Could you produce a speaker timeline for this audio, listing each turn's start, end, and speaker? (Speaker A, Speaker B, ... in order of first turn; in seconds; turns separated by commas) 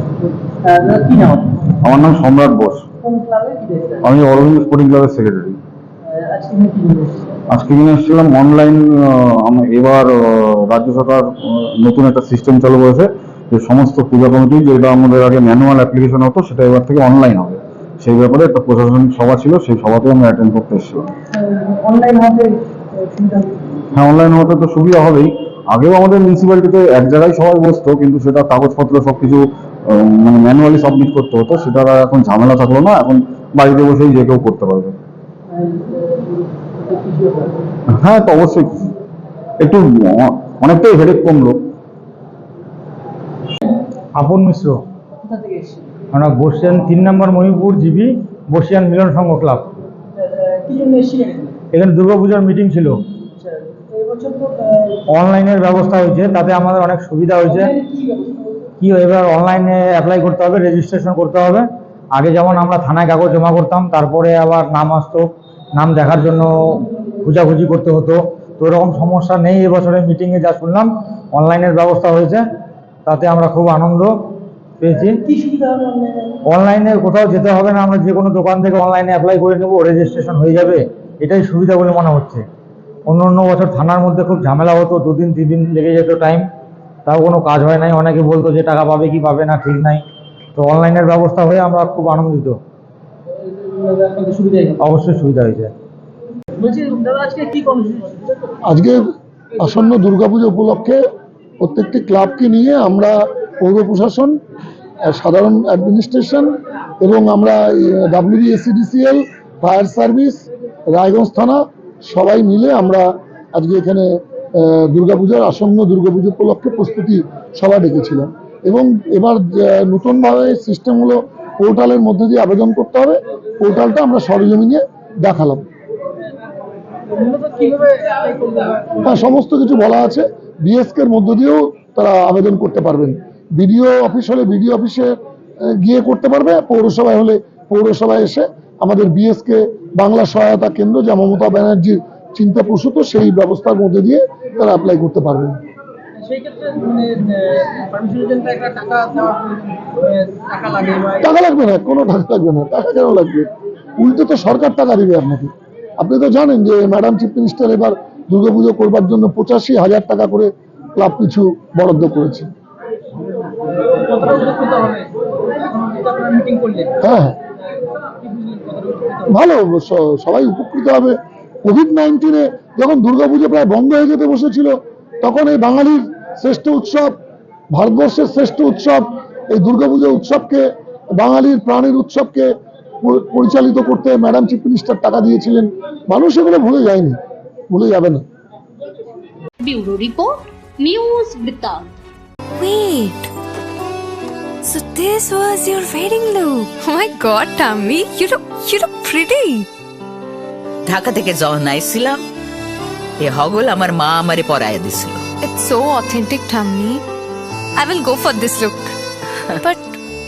Speaker A: 0.2-1.6, Speaker B: 1.8-2.9, Speaker A: 3.0-4.0, Speaker B: 4.0-5.6, Speaker A: 6.1-7.2, Speaker B: 7.5-21.1, Speaker A: 21.3-23.8, Speaker B: 23.9-34.9, Speaker A: 35.5-37.6, Speaker B: 37.9-38.8, Speaker B: 39.6-41.5, Speaker C: 44.2-44.7, Speaker A: 45.2-45.9, Speaker C: 46.1-49.6, Speaker A: 50.5-51.5, Speaker C: 51.7-53.0, Speaker A: 53.4-54.9, Speaker C: 55.1-57.7, Speaker A: 57.5-58.4, Speaker C: 58.8-61.6, Speaker C: 62.1-65.2, Speaker C: 65.8-72.4, Speaker C: 73.0-74.1, Speaker C: 74.8-75.2, Speaker A: 75.2-76.1, Speaker C: 76.5-82.4, Speaker C: 83.1-86.4, Speaker C: 87.0-90.0, Speaker C: 90.5-92.5, Speaker A: 93.8-94.8, Speaker C: 94.8-95.7, Speaker A: 96.6-98.4, Speaker D: 98.7-99.0, Speaker D: 99.6-101.0, Speaker D: 101.6-104.3, Speaker D: 105.1-106.5, Speaker D: 107.0-114.1, Speaker D: 114.6-125.6, Speaker A: 127.1-129.0, Speaker D: 129.1-135.1, Speaker D: 135.7-145.6, Speaker A: 146.2-151.3, Speaker D: 151.2-153.5, Speaker D: 154.0-162.5, Speaker A: 163.7-165.1, Speaker A: 165.7-166.9, Speaker D: 167.0-167.3, Speaker A: 168.2-169.3, Speaker D: 169.3-177.1, Speaker D: 177.7-180.6, Speaker D: 181.2-182.5, Speaker D: 183.0-187.2, Speaker D: 187.7-188.2, Speaker E: 189.6-191.9, Speaker F: 192.6-193.3, Speaker F: 194.6-199.7, Speaker G: 200.8-202.2, Speaker G: 203.2-205.2, Speaker F: 205.4-207.0, Speaker F: 207.8-208.9, Speaker F: 209.6-209.9